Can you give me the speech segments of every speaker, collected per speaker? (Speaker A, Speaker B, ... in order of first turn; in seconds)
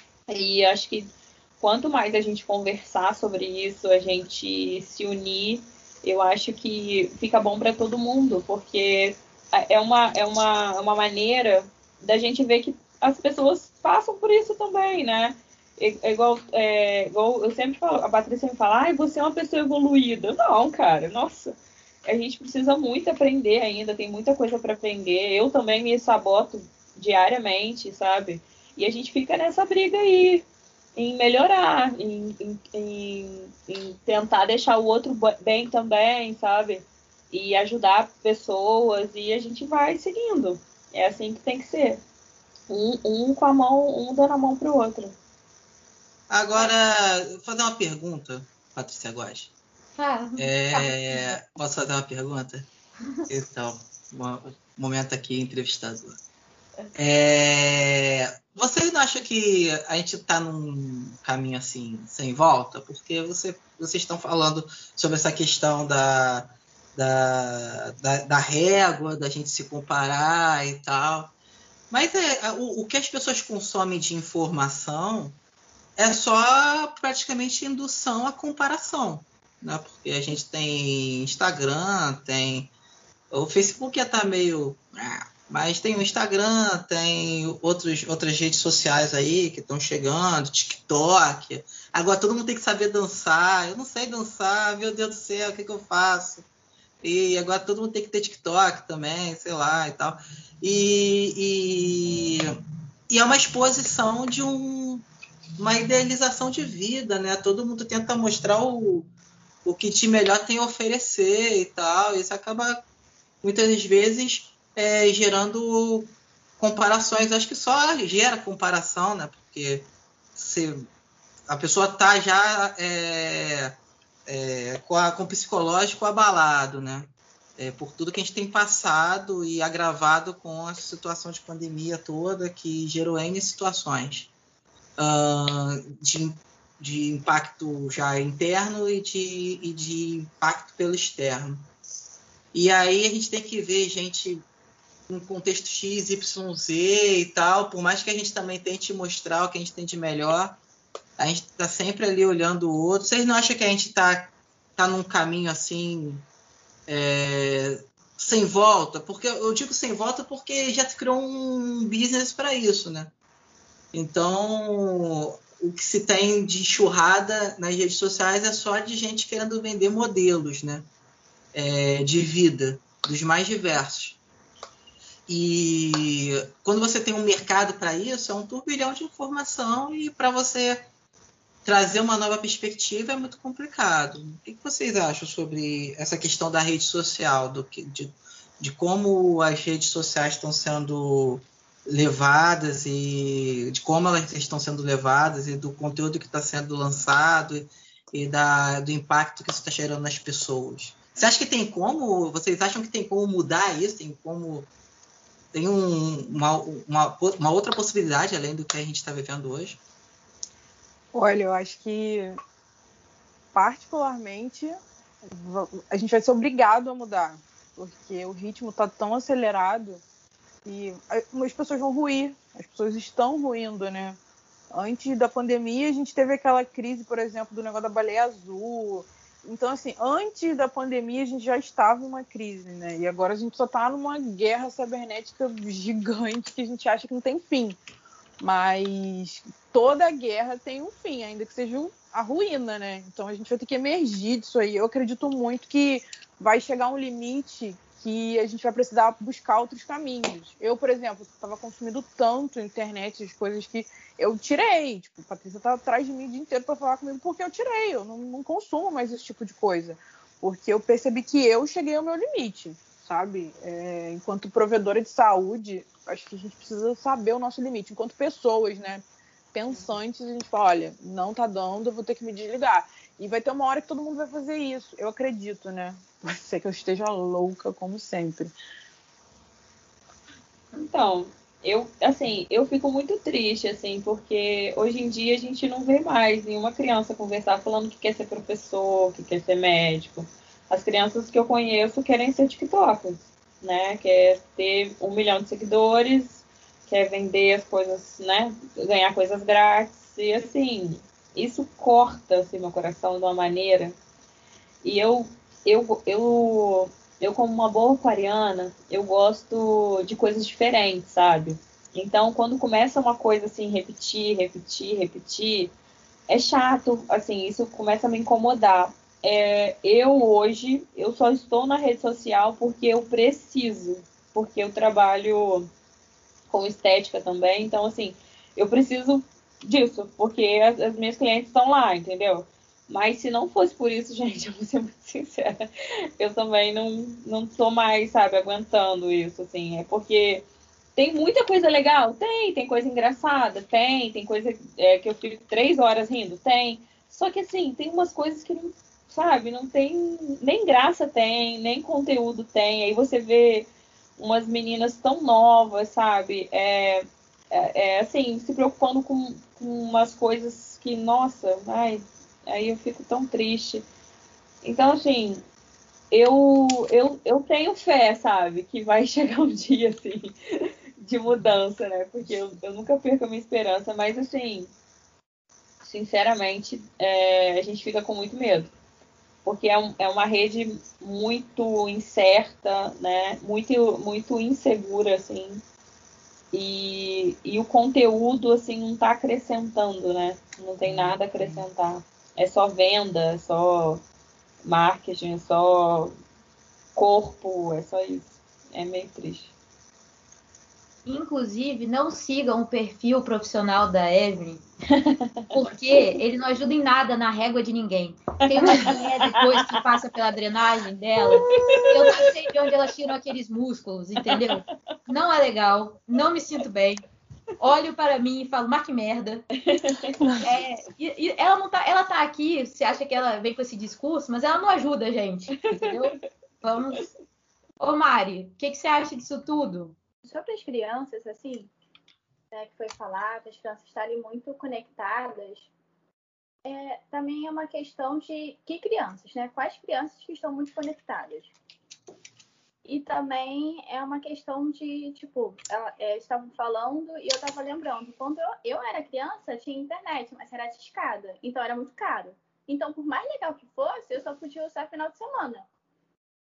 Speaker A: 0.3-42.0, 42.7-45.1, 280.7-304.0, 304.8-315.7, 316.3-325.7, 326.5-340.4, 340.9-363.8, 364.6-365.4, 366.1-374.7, 375.8-378.7, 379.4-385.6, 386.5-394.0, 394.6-396.1, 396.9-399.5, 404.9-405.5, 408.5-409.6, 411.4-412.3, 414.2-414.5, 419.6-420.2, 425.6-426.2
Speaker B: 46.3-49.5, 50.4-52.6, 53.3-56.2, 56.9-71.3, 71.9-75.4, 76.0-82.7, 83.3-96.5, 97.0-102.5, 103.1-105.0, 105.6-109.1, 109.6-112.8, 113.4-120.9, 121.5-123.8, 124.3-134.3, 135.0-141.7, 142.5-144.4, 145.1-150.6, 151.2-156.3, 156.9-163.1, 163.9-170.9, 171.5-174.2, 175.3-180.9, 181.6-204.7, 205.5-209.8
Speaker C: 50.0-51.2, 401.0-404.6, 405.5-417.0, 417.6-419.4, 420.4-427.1, 427.8-429.9
Speaker D: 211.1-212.4, 213.5-220.0, 220.6-224.2, 224.7-237.8, 238.4-278.5, 411.4-412.0, 420.2-420.5
Speaker E: 430.2-431.7, 432.5-435.7, 436.6-441.5, 442.8-455.6